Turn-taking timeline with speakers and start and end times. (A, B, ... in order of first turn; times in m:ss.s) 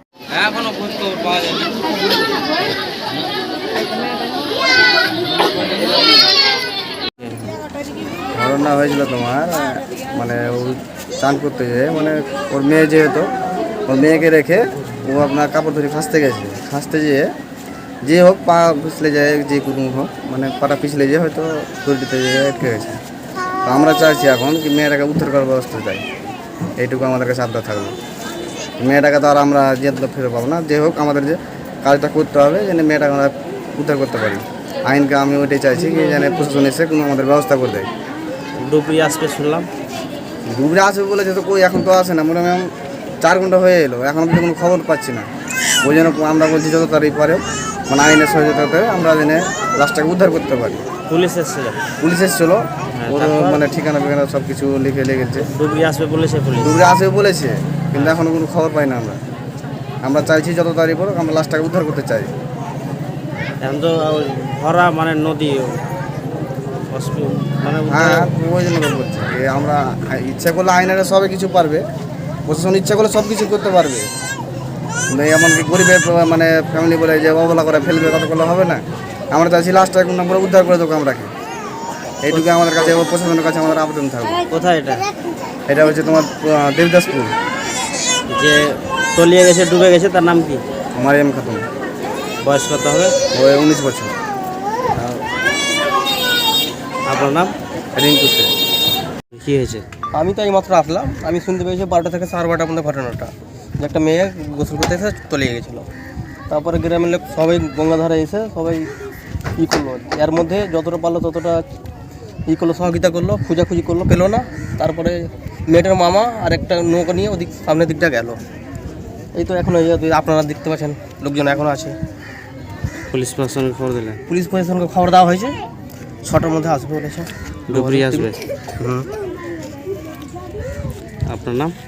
0:00.3-0:01.8 A
0:07.2-0:07.5 A
0:08.4-0:13.3 B
0:13.9-0:17.3 B
0:18.0-0:23.0 B
0:23.6-0:26.0 B
0:26.8-0:28.0 B
0:28.8-0:37.9 B
0:38.6-0:39.7 A
0:40.5-0:42.7 B
0:43.2-0:45.3 B
0:45.8-0:50.8 B
0:51.1-0:51.8 A
0:52.0-0:55.5 B
0:53.0-0:53.6 A
0:55.5-0:56.8 A
0:56.6-0:59.2 B
0:57.9-0:58.2 A
1:00.0-1:02.3 B
1:03.6-1:05.8 A
1:06.9-1:08.3 A
1:07.9-1:11.8 B
1:12.5-1:14.1 B
1:15.1-1:18.8 B
1:19.3-1:21.3 B
1:22.2-1:24.4 B
1:22.3-1:23.0 A
1:24.5-1:25.1 A
1:25.7-1:27.3 B
1:28.3-1:30.6 A
1:31.0-1:31.6 B
1:32.4-1:33.2 A
1:33.3-1:34.1 B
1:35.0-1:35.2 A
1:37.1-1:37.6 A
1:38.0-1:38.5 B
1:39.3-1:39.9 A
1:40.1-1:45.9 C
1:46.5-1:48.9 C
1:49.6-1:51.6 C
1:52.5-1:58.4 C
1:59.3-2:02.0 C
2:03.1-2:04.2 A
2:04.3-2:05.6 C
2:06.2-2:09.1 C
2:07.7-2:08.4 A
2:11.3-2:11.7 A